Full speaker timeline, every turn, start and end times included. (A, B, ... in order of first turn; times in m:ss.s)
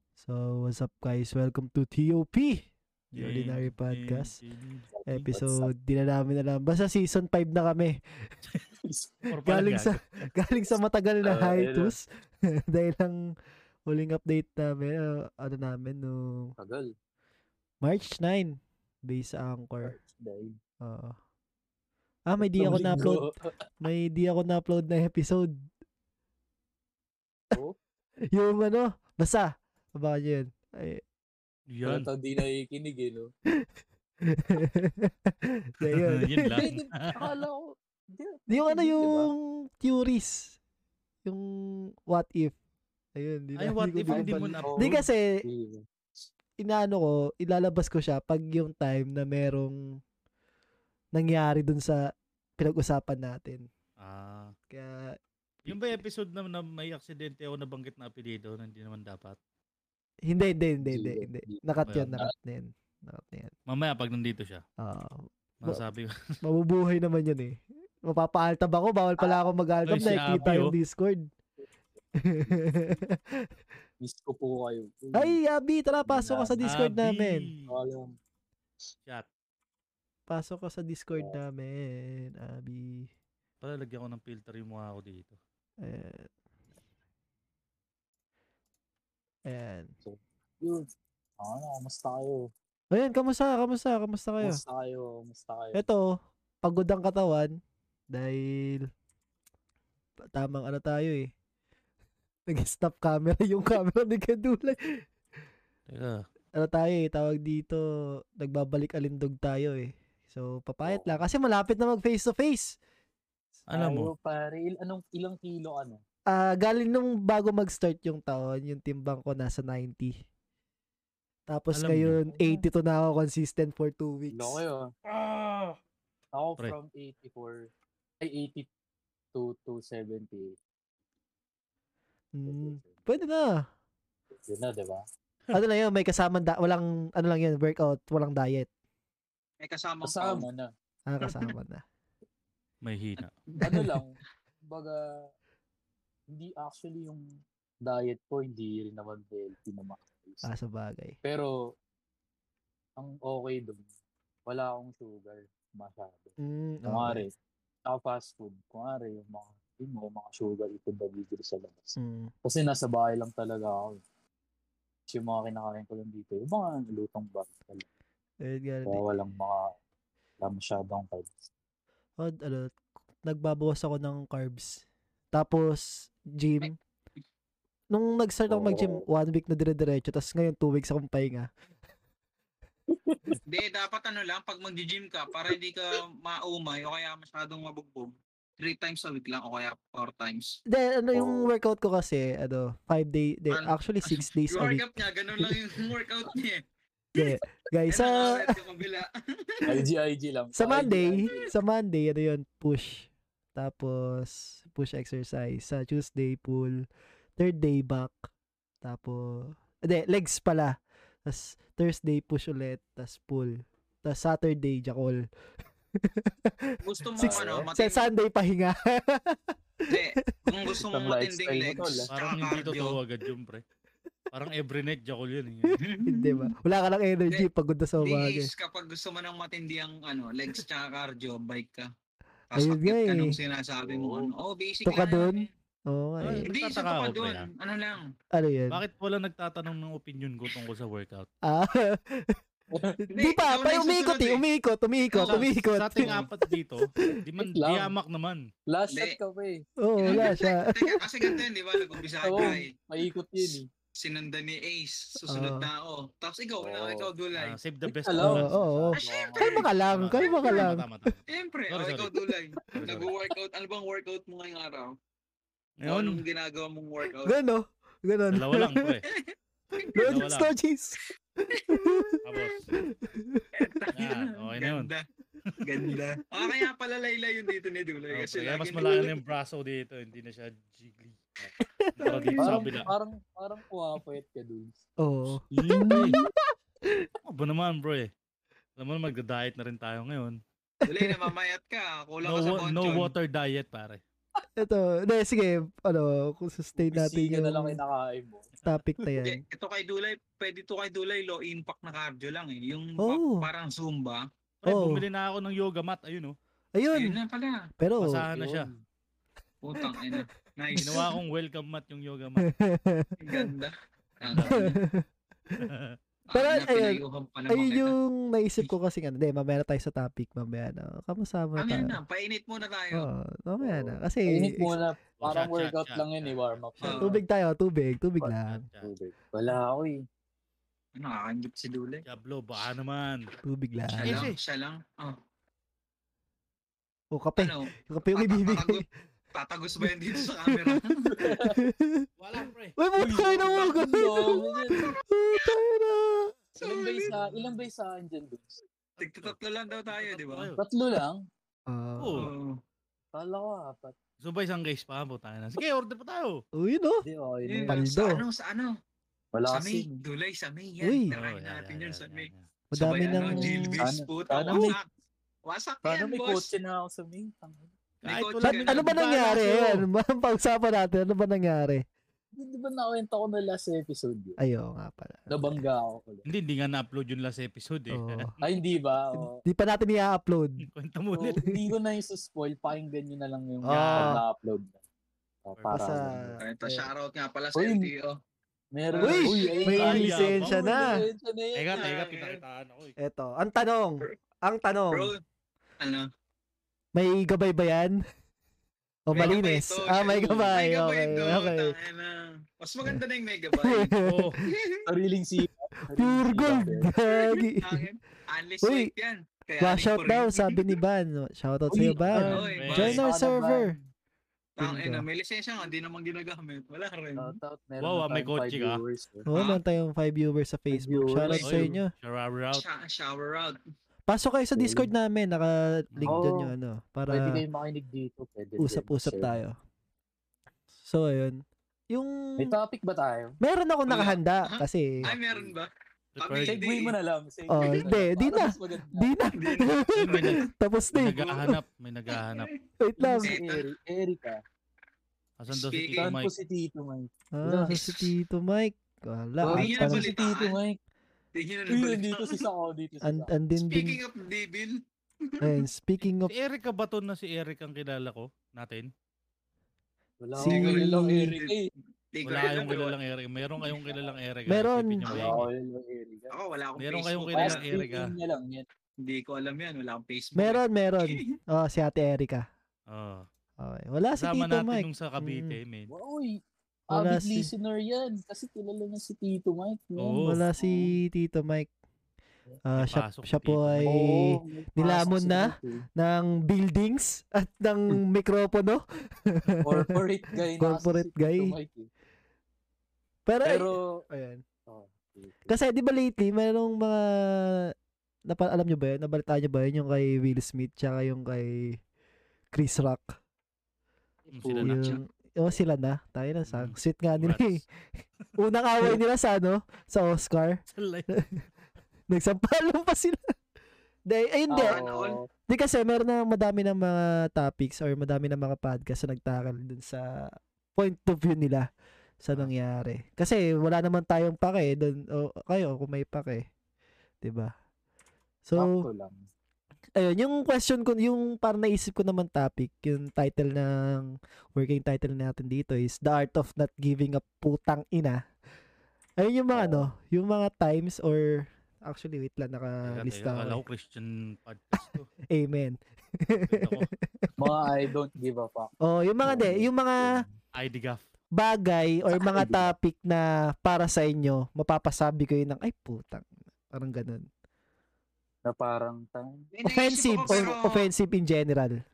0:00.2-0:04.3 A
0:03.2-0:04.9 B
0:04.9-0:05.7 C
0:05.1-0:08.3 A
0:08.8-0:09.3 C
0:09.3-0:10.0 B
0:09.4-0:12.0 A
0:11.2-0:11.9 C
0:12.7-0:13.2 A
0:13.8-0:16.5 A
0:16.6-0:16.9 C
0:17.8-0:20.0 A
0:19.8-0:20.5 C
0:20.8-0:21.1 A
0:22.2-0:23.2 A
0:22.4-0:23.5 C
0:23.8-0:25.5 A
0:28.3-0:31.0 A
0:31.7-0:32.0 B
0:31.8-0:33.3 C
0:34.2-0:36.7 A
0:35.9-0:37.1 B
0:36.6-0:39.3 C
0:38.5-0:40.6 A
0:41.2-0:42.5 A
0:43.1-0:45.4 A
0:43.6-0:45.0 B
0:44.1-0:45.8 C
0:46.6-0:49.8 A
0:51.1-0:52.0 A
0:52.6-0:53.6 A
0:54.0-0:54.5 B
0:54.7-0:55.8 A
0:55.6-0:59.4 B
1:00.2-1:03.5 A
1:00.8-1:02.3 C
1:01.9-1:02.1 B
1:03.7-1:04.6 B
1:04.8-1:05.8 A
1:05.6-1:06.1 B
1:06.4-1:11.2 A
1:09.2-1:10.5 C
1:09.9-1:10.7 B
1:12.2-1:13.5 A
1:12.5-1:12.9 C
1:14.0-1:15.4 C
1:15.1-1:17.5 A
1:16.0-1:16.6 C
1:16.6-1:17.7 B
1:17.7-1:18.1 C
1:20.3-1:23.1 A
1:21.1-1:21.4 C
1:23.6-1:25.4 B
1:25.8-1:26.3 A
1:29.5-1:29.9 A
1:30.0-1:30.8 C
1:31.4-1:32.5 C
1:32.9-1:34.6 A
1:34.4-1:35.8 C
1:35.7-1:36.1 A
1:36.6-1:37.6 A
1:38.1-1:38.9 A
1:40.3-1:41.3 A
1:42.5-1:45.0 A
1:45.9-1:46.2 B
1:46.6-1:47.8 A
1:48.4-1:52.8 A
1:50.8-1:51.2 C
1:53.7-1:54.1 B
1:53.7-1:56.0 C
1:56.3-2:00.1 A
2:01.5-2:04.6 A
2:01.7-2:02.2 B
2:02.3-2:02.6 C
2:04.3-2:04.9 C
2:05.1-2:05.8 B
2:06.3-2:07.7 C
2:08.2-2:08.7 C
2:09.3-2:10.6 C
2:12.3-2:13.6 A
2:12.4-2:13.2 C
2:14.4-2:15.0 C
2:15.5-2:18.7 A
2:19.6-2:20.5 D
2:20.0-2:20.7 C
2:21.1-2:21.8 A
2:21.2-2:21.5 D
2:22.8-2:23.3 B
2:23.2-2:23.8 D
2:23.6-2:24.2 C
2:24.7-2:25.0 C
2:26.3-2:27.2 C
2:27.8-2:30.5 C
2:30.4-2:31.2 A
2:31.2-2:31.5 C
2:33.0-2:33.8 C
2:34.5-2:36.3 C
2:36.4-2:37.2 A
2:36.9-2:37.3 C
2:37.9-2:44.0 C
2:42.0-2:42.3 A
2:45.1-2:47.8 C
2:48.4-2:49.0 A
2:48.8-2:49.6 C
2:50.4-2:51.5 C
2:52.2-2:56.7 A
2:57.9-3:01.5 A
2:58.5-2:59.0 C
3:02.9-3:03.4 C
3:03.5-3:10.6 D
3:10.7-3:15.0 A
3:11.1-3:11.5 C
3:13.5-3:16.6 D
3:17.2-3:18.5 A
3:17.9-3:19.8 D
3:19.6-3:21.5 C
3:20.6-3:26.8 A
3:27.4-3:28.2 A
3:28.8-3:30.7 A
3:31.2-3:35.2 A
3:36.0-3:40.7 A
3:36.8-3:38.1 D
3:37.2-3:37.7 C
3:39.9-3:43.0 D
3:40.8-3:42.1 C
3:42.1-3:43.6 B
3:44.3-3:45.8 B
3:45.6-3:48.5 A
3:45.8-3:46.5 D
3:48.0-3:51.9 D
3:52.5-3:55.5 D
3:52.5-3:53.3 A
3:53.8-3:54.3 C
3:54.8-3:56.5 A
3:56.2-3:57.5 B
3:56.4-3:58.0 D
3:58.4-3:58.8 A
3:58.7-4:01.3 B
4:01.4-4:02.4 A
4:02.7-4:03.0 C
4:03.0-4:06.3 A
4:03.1-4:04.4 D
4:05.2-4:05.4 D
4:05.2-4:08.4 B
4:07.4-4:07.9 C
4:08.7-4:09.6 C
4:08.9-4:09.2 D
4:09.8-4:12.6 A
4:10.0-4:12.7 D
4:12.2-4:13.6 C
4:14.0-4:17.6 D
4:15.3-4:15.7 A
4:16.6-4:17.1 C
4:17.4-4:18.5 B
4:17.8-4:19.6 C
4:18.2-4:21.1 A
4:19.0-4:19.7 D
4:19.9-4:22.1 B
4:20.2-4:20.7 D
4:21.3-4:24.9 D
4:22.7-4:23.1 B
4:25.8-4:26.2 B
4:25.8-4:27.3 D
4:27.2-4:28.9 A
4:28.3-4:29.0 B
4:29.8-4:30.1 D
4:29.9-4:32.2 A
4:30.0-4:30.5 B
4:31.5-4:32.5 D
4:32.2-4:32.6 B
4:32.8-4:33.5 A
4:33.5-4:35.0 D
4:33.9-4:34.9 B
4:35.6-4:39.1 D
4:36.4-4:36.7 A
4:38.1-4:41.2 B
4:41.6-4:42.6 A
4:42.0-4:42.9 B
4:42.4-4:44.8 C
4:45.0-4:46.3 A
4:45.5-4:46.2 B
4:47.2-4:48.1 B
4:48.8-4:50.4 B
4:50.8-4:51.3 A
4:50.8-4:53.1 D
4:52.2-4:54.0 B
4:54.6-4:57.8 A
4:56.7-4:58.5 C
4:58.6-4:59.4 A
4:59.2-5:04.2 D
5:03.0-5:03.5 A
5:04.6-5:06.3 B
5:04.6-5:05.0 A
5:06.7-5:07.2 A
5:06.9-5:07.6 D
5:07.8-5:08.2 A
5:08.0-5:08.7 B
5:08.3-5:08.8 C
5:09.6-5:11.1 D
5:09.8-5:11.1 A
5:10.7-5:12.5 B
5:12.4-5:13.5 A
5:13.2-5:14.8 D
5:14.3-5:14.6 B
5:14.4-5:15.6 A
5:15.6-5:16.0 B
5:16.3-5:17.9 D
5:16.3-5:22.0 A
5:21.6-5:23.1 D
5:22.9-5:24.8 A
5:23.6-5:27.1 C
5:25.2-5:26.6 B
5:26.8-5:27.2 D
5:26.9-5:28.6 A
5:28.2-5:30.0 C
5:28.5-5:28.9 B
5:31.0-5:32.0 D
5:32.0-5:33.2 B
5:33.4-5:34.2 A
5:33.9-5:35.2 D
5:34.0-5:34.4 B
5:37.1-5:38.8 A
5:37.4-5:38.8 D
5:39.3-5:41.4 D
5:40.5-5:42.1 A
5:41.1-5:41.6 C
5:42.2-5:42.8 B
5:42.8-5:46.3 A
5:43.0-5:44.9 C
5:43.5-5:44.8 D
5:46.6-5:47.2 D
5:46.6-5:48.6 C
5:49.0-5:50.5 D
5:49.9-5:50.6 B
5:50.6-5:51.2 C
5:51.7-5:52.3 A
5:52.0-5:52.3 B
5:52.2-5:52.6 D
5:53.1-5:53.9 C
5:54.2-5:56.4 B
5:56.6-5:57.0 A
5:57.0-5:57.8 C
5:57.5-5:58.7 D
5:57.6-5:58.2 A
5:59.3-6:00.0 C
5:59.5-6:04.9 D
6:00.8-6:01.1 A
6:01.1-6:02.5 B
6:02.7-6:03.8 A
6:03.2-6:04.8 C
6:05.4-6:06.5 D
6:05.8-6:07.7 C
6:08.0-6:08.9 D
6:08.0-6:09.8 B
6:08.4-6:11.8 A
6:12.4-6:14.4 C
6:14.4-6:15.6 A
6:15.3-6:16.3 C
6:16.3-6:18.3 B
6:17.9-6:18.3 A
6:18.4-6:19.4 C
6:19.4-6:20.7 A
6:20.7-6:21.4 B
6:21.1-6:24.8 C
6:23.7-6:24.2 A
6:23.7-6:24.2 B
6:25.4-6:26.4 C
6:25.6-6:26.0 B
6:25.7-6:26.9 A
6:26.4-6:28.2 D
6:27.5-6:27.9 C
6:28.7-6:31.8 C
6:28.9-6:30.0 D
6:29.0-6:30.9 A
6:29.8-6:30.6 B
6:31.6-6:33.0 B
6:31.7-6:32.4 D
6:33.0-6:35.1 A
6:34.9-6:35.2 D
6:36.9-6:38.0 A
6:39.1-6:41.7 A
6:39.1-6:43.9 D
6:43.6-6:44.4 A
6:44.0-6:44.4 B
6:44.4-6:44.8 D
6:44.8-6:46.9 C
6:45.9-6:47.8 A
6:47.1-6:50.7 D
6:48.6-6:48.9 A
6:49.6-6:53.7 A
6:51.7-6:53.8 C
6:52.2-6:53.0 B
6:52.2-6:53.0 D
6:54.6-6:57.4 D
6:54.6-6:55.0 A
6:57.2-6:59.3 C
6:57.8-6:58.8 B
6:59.2-7:01.9 A
6:59.3-6:59.6 D
7:00.7-7:01.8 C
7:01.4-7:02.6 B
7:02.5-7:03.6 D
7:04.1-7:07.4 A
7:04.6-7:04.9 C
7:06.1-7:06.5 C
7:07.1-7:09.4 C
7:08.6-7:09.6 A
7:10.8-7:11.4 A
7:11.9-7:12.5 A
7:12.4-7:13.4 C
7:13.4-7:15.1 A
7:13.9-7:17.0 D
7:15.1-7:15.5 C
7:16.2-7:16.6 B
7:16.4-7:19.1 C
7:17.5-7:21.6 A
7:19.3-7:20.3 D
7:19.9-7:22.5 B
7:22.1-7:22.5 D
7:22.8-7:23.3 A
7:23.0-7:24.4 C
7:23.2-7:23.7 D
7:25.4-7:26.3 B
7:25.5-7:26.1 D
7:26.0-7:27.8 C
7:27.3-7:30.1 A
7:27.7-7:28.1 D
7:29.4-7:30.8 C
7:29.5-7:30.6 D
7:31.4-7:32.4 D
7:31.7-7:33.3 C
7:33.0-7:34.0 A
7:33.6-7:35.6 D
7:35.4-7:36.3 A
7:36.2-7:38.9 B
7:40.2-7:41.7 C
7:40.4-7:41.3 A
7:40.4-7:41.6 D
7:42.1-7:42.9 D
7:42.2-7:45.4 B
7:43.6-7:43.9 D
7:44.5-7:45.0 A
7:45.1-7:45.3 D
7:45.1-7:46.3 C
7:46.3-7:47.6 D
7:46.8-7:48.1 B
7:47.4-7:48.6 C
7:49.0-7:51.2 D
7:50.4-7:52.4 A
7:52.9-7:53.2 B
7:53.6-7:55.6 A
7:54.2-7:55.9 B
7:55.9-7:56.4 C
7:56.9-7:57.5 A
7:56.9-8:00.7 C
8:00.0-8:00.4 B
8:00.2-8:01.7 A
8:02.6-8:09.9 A
8:02.8-8:03.9 B
8:03.8-8:05.8 C
8:09.6-8:11.9 C
8:10.6-8:11.5 A
8:13.3-8:14.4 A
8:13.4-8:13.9 C
8:14.7-8:15.5 C
8:15.5-8:17.7 A
8:18.3-8:21.8 A
8:22.5-8:23.2 A
8:24.3-8:24.6 C
8:24.3-8:25.0 B
8:24.6-8:27.6 A
8:24.6-8:25.0 D
8:26.5-8:27.6 B
8:28.4-8:30.6 A
8:30.7-8:31.2 B
8:32.1-8:33.3 A
8:34.1-8:34.8 A
8:34.5-8:35.2 C
8:34.7-8:35.2 D
8:35.5-8:40.0 A
8:40.7-8:41.7 A
8:42.2-8:46.5 A
8:47.2-8:47.5 A
8:48.4-8:48.8 A
8:48.6-8:49.2 C
8:50.0-8:58.2 A
8:59.2-9:03.6 A
8:59.5-8:59.9 C
9:02.8-9:05.1 B
9:05.3-9:07.5 A
9:06.4-9:06.9 B
9:07.4-9:08.7 C
9:08.8-9:10.2 A
9:09.2-9:10.3 C
9:10.6-9:11.0 B
9:11.4-9:17.2 A
9:12.1-9:12.7 C
9:18.4-9:19.5 C
9:19.5-9:20.8 D
9:19.6-9:21.8 A